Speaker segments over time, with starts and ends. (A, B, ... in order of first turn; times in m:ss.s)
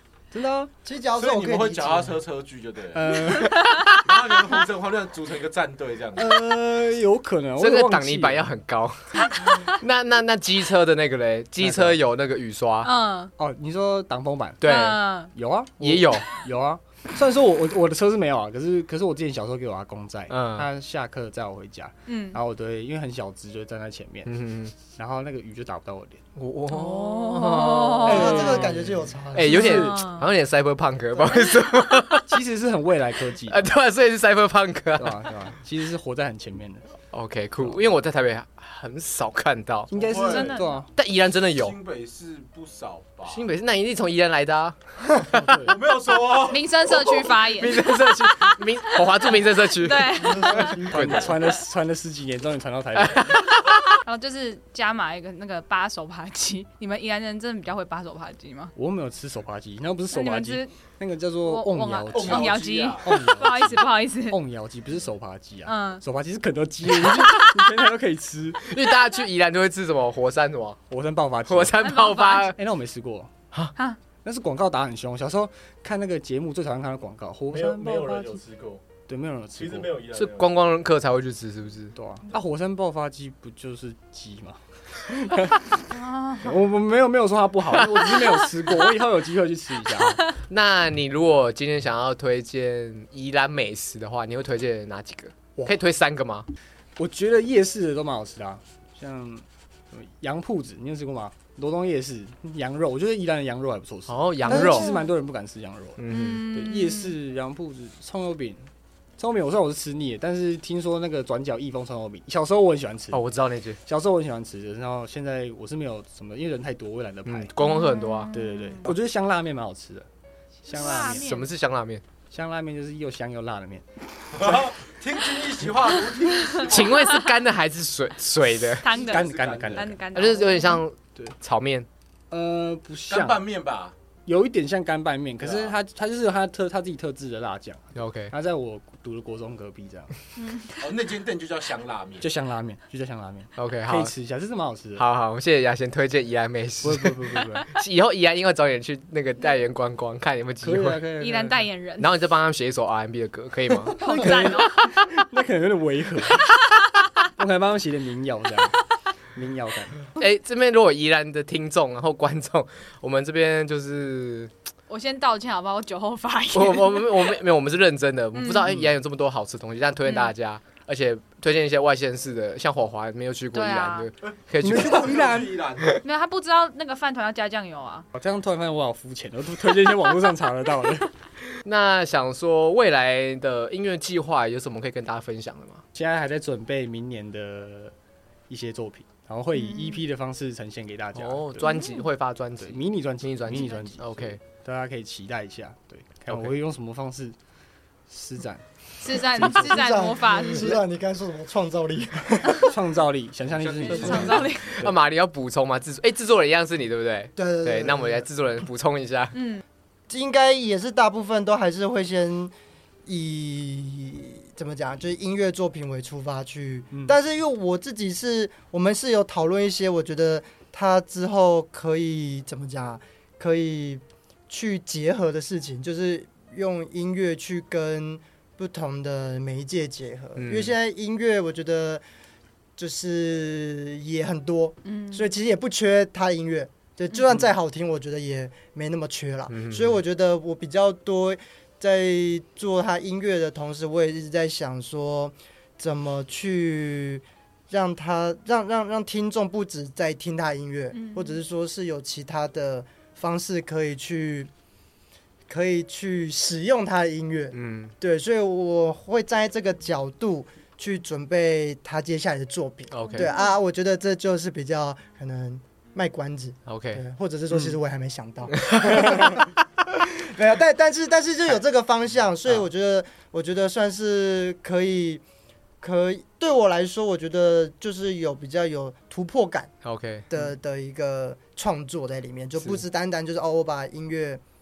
0:00.3-0:00.7 A
0:00.8-0:02.2 B
0:01.2-0:03.3 C
0:02.9-0:03.9 A
0:03.6-0:03.9 D
0:03.9-0:06.4 C
0:06.2-0:08.5 A
0:07.6-0:12.9 E
0:11.6-0:12.0 A
0:12.8-0:13.3 D
0:13.4-0:14.8 A
0:14.6-0:15.1 E
0:14.6-0:15.3 D
0:15.3-0:26.2 A
0:15.8-0:16.3 E
0:20.3-0:20.7 E
0:22.1-0:22.4 D
0:24.3-0:24.7 E
0:26.4-0:32.4 E
0:26.7-0:28.7 D
0:28.0-0:29.8 B
0:28.0-0:30.1 A
0:29.5-0:30.3 D
0:32.3-0:33.6 A
0:33.4-0:35.4 E
0:35.0-0:36.9 A
0:37.1-0:39.9 E
0:39.9-0:40.9 A
0:39.9-0:40.6 C
0:40.2-0:40.8 D
0:41.0-0:41.8 E
0:41.4-0:43.5 C
0:43.3-0:45.6 E
0:45.4-0:45.8 A
0:45.6-0:47.2 C
0:46.4-0:50.8 D
0:47.5-0:51.4 E
0:50.4-0:51.2 C
0:50.6-0:53.4 A
0:53.0-0:53.8 E
0:53.9-0:58.7 D
0:58.8-1:08.6 A
1:00.1-1:00.7 D
1:01.4-1:04.4 D
1:02.1-1:03.4 C
1:05.6-1:06.0 D
1:08.6-1:10.8 E
1:10.9-1:11.8 A
1:11.4-1:12.6 E
1:11.8-1:12.6 D
1:12.6-1:13.3 A
1:14.2-1:18.4 A
1:17.5-1:18.8 C
1:19.1-1:20.0 A
1:19.6-1:20.7 C
1:20.1-1:22.0 E
1:22.0-1:30.2 A
1:25.9-1:26.5 D
1:30.4-1:36.5 E
1:37.0-1:53.2 A
1:44.1-1:45.0 E
1:44.5-1:45.1 D
1:46.0-1:46.5 E
1:46.1-1:47.2 D
1:53.1-1:53.8 E
1:53.8-1:57.5 A
1:57.3-1:58.3 E
1:57.6-1:58.9 D
1:58.3-2:00.1 A
2:00.6-2:01.3 A
2:00.6-2:01.5 D
2:00.8-2:02.0 E
2:02.3-2:04.7 A
2:04.3-2:07.2 C
2:06.6-2:08.9 E
2:08.8-2:10.8 D
2:08.9-2:10.0 C
2:09.0-2:10.0 A
2:10.1-2:11.9 E
2:12.3-2:13.4 A
2:13.1-2:13.9 C
2:14.3-2:20.1 A
2:15.4-2:15.8 C
2:18.0-2:18.3 E
2:20.4-2:20.8 D
2:20.8-2:22.3 C
2:22.2-2:25.0 A
2:23.6-2:24.1 E
2:25.0-2:31.0 E
2:26.8-2:27.7 A
2:30.6-2:31.7 A
2:31.2-2:32.1 D
2:32.0-2:34.8 E
2:34.0-2:35.1 D
2:34.0-2:36.5 A
2:37.4-2:38.8 A
2:39.4-2:40.0 A
2:40.2-2:44.5 E
2:44.9-2:47.4 D
2:46.5-2:55.1 E
2:48.3-2:48.7 D
2:50.0-2:50.3 D
2:53.5-2:54.1 D
2:54.6-2:55.6 A
2:54.7-2:56.0 C
2:56.0-2:58.1 D
2:58.1-3:01.1 A
3:01.6-3:05.8 E
3:05.9-3:07.9 A
3:08.5-3:11.8 A
3:09.5-3:10.0 D
3:11.2-3:14.4 E
3:11.6-3:12.0 D
3:12.6-3:17.4 A
3:16.3-3:16.5 E
3:18.1-3:20.8 A
3:19.0-3:20.8 D
3:19.4-3:22.8 B
3:22.5-3:25.0 A
3:23.5-3:24.6 C
3:23.9-3:24.8 D
3:24.7-3:29.4 E
3:27.4-3:28.3 B
3:29.3-3:29.6 D
3:30.1-3:32.5 B
3:33.1-3:52.0 B
3:50.4-3:50.7 E
3:52.8-4:14.5 B
3:54.8-3:55.3 D
3:57.1-3:57.5 D
3:59.5-4:00.0 E
4:10.9-4:11.4 D
4:15.5-4:35.2 B
4:17.5-4:17.9 E
4:22.9-4:23.3 E
4:23.0-4:23.5 D
4:26.7-4:27.0 E
4:28.5-4:29.4 E
4:35.8-4:39.7 B
4:39.8-4:40.3 E
4:40.3-4:44.4 B